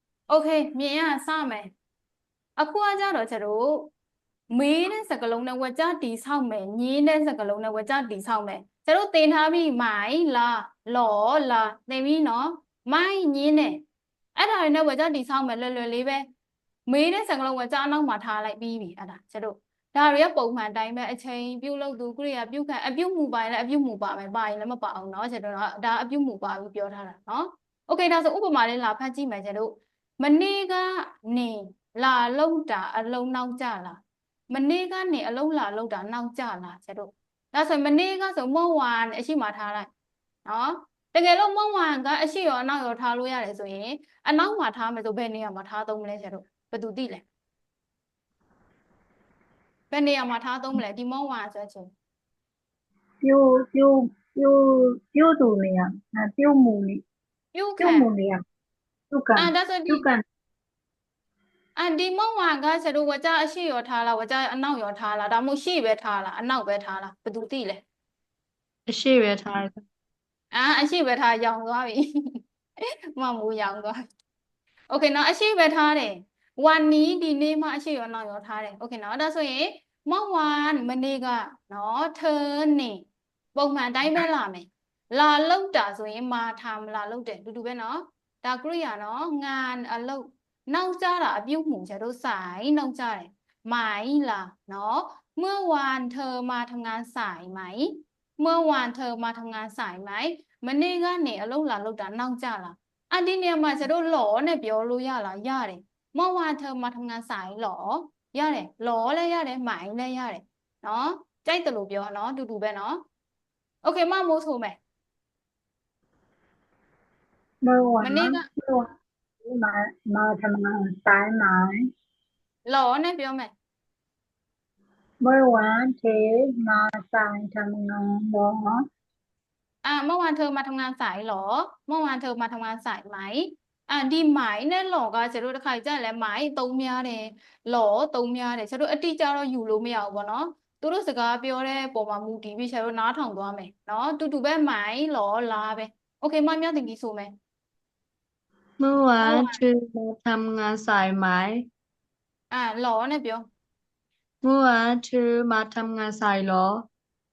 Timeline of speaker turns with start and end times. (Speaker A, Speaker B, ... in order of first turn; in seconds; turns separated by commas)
Speaker A: 0.3-1.7, Speaker A: 2.6-3.9, Speaker A: 4.5-13.8, Speaker A: 14.3-16.2, Speaker A: 16.9-39.9, Speaker A: 40.5-47.2, Speaker A: 49.9-51.9, Speaker B: 53.2-57.0, Speaker A: 57.5-58.1, Speaker B: 57.8-58.4, Speaker B: 59.1-60.2, Speaker A: 59.4-60.0, Speaker A: 61.8-67.8, Speaker C: 68.9-69.8, Speaker A: 70.5-72.1, Speaker A: 73.1-74.0, Speaker A: 74.9-113.0, Speaker A: 113.8-114.8, Speaker B: 117.6-118.9, Speaker A: 118.0-118.5, Speaker B: 119.4-121.8, Speaker A: 122.6-123.5, Speaker B: 125.2-128.8, Speaker A: 129.8-147.3, Speaker C: 148.8-151.7, Speaker A: 149.2-149.6, Speaker A: 152.5-153.5, Speaker C: 154.4-156.9